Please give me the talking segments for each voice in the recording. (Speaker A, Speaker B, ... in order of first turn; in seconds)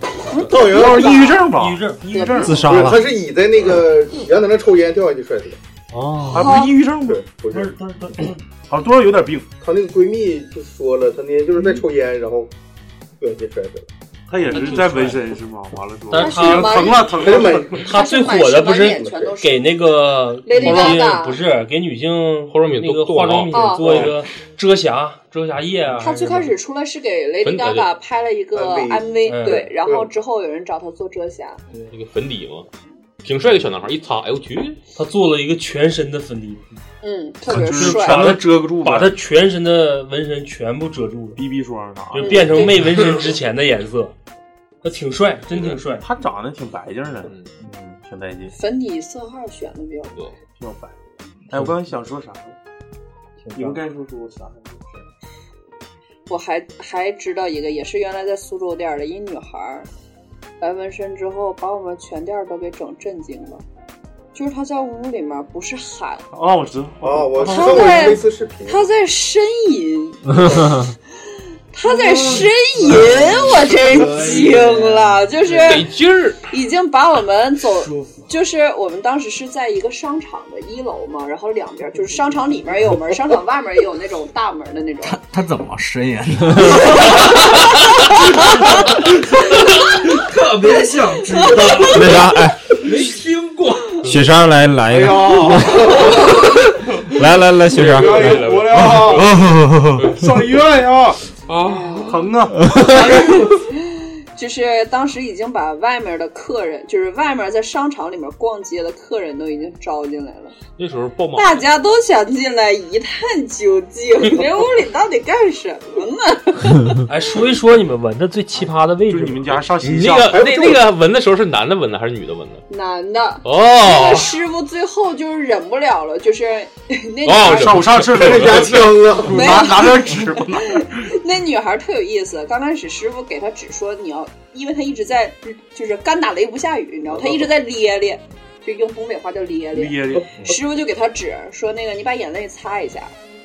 Speaker A: 0.3-1.4, 2.1-2.7, 6.3-6.8, 16.1-19.7, 20.4-21.4, 23.5-24.1, 26.0-31.6, 37.0-38.4, 42.2-43.0, 48.5-50.3, 56.3-59.9, 60.6-63.6, 64.3-66.3, 67.4-70.6, 71.7-75.9, 76.5-85.2, 86.7-87.7, 88.4-88.7, 91.3-92.1, 101.6-110.6, 111.3-117.0, 122.7-128.0, 129.2-143.1
Speaker B: 0.3-1.4, 2.6-5.6, 7.0-7.7, 9.6-12.5, 13.2-13.9, 17.2-17.8, 18.9-19.4, 28.5-30.1, 67.0-68.9, 120.3-120.8, 128.1-129.6, 137.1-137.4
Speaker C: 0.6-3.0, 5.9-7.2, 8.7-9.5, 14.3-17.8, 37.5-39.1, 41.4-42.7, 45.5-48.5, 50.6-50.9, 51.5-52.6, 53.5-55.1, 66.3-68.2, 94.9-96.3, 97.7-99.3, 100.2-101.2, 102.1-102.7, 119.1-120.4, 127.5-130.9, 139.7-140.6
Speaker D: 1.5-2.0, 14.5-15.2, 16.1-17.2, 17.7-26.6, 29.2-29.7, 35.0-36.7, 37.7-41.4, 42.1-44.1, 44.8-46.0, 53.4-53.8, 117.1-119.6
Speaker E: 2.4-3.0, 91.9-92.7, 94.0-95.9, 97.1-98.5, 99.0-100.0, 102.6-103.0
Speaker F: 7.5-8.4, 71.8-75.8, 77.7-78.3, 85.0-87.4, 88.4-94.1, 102.9-103.6
Speaker G: 14.5-15.2, 22.5-24.1, 27.4-27.9, 31.9-32.7, 33.2-34.8, 75.6-76.4, 97.7-99.3, 100.0-100.2, 101.5-102.2, 110.8-111.7, 119.8-122.6, 123.4-124.4, 127.2-129.1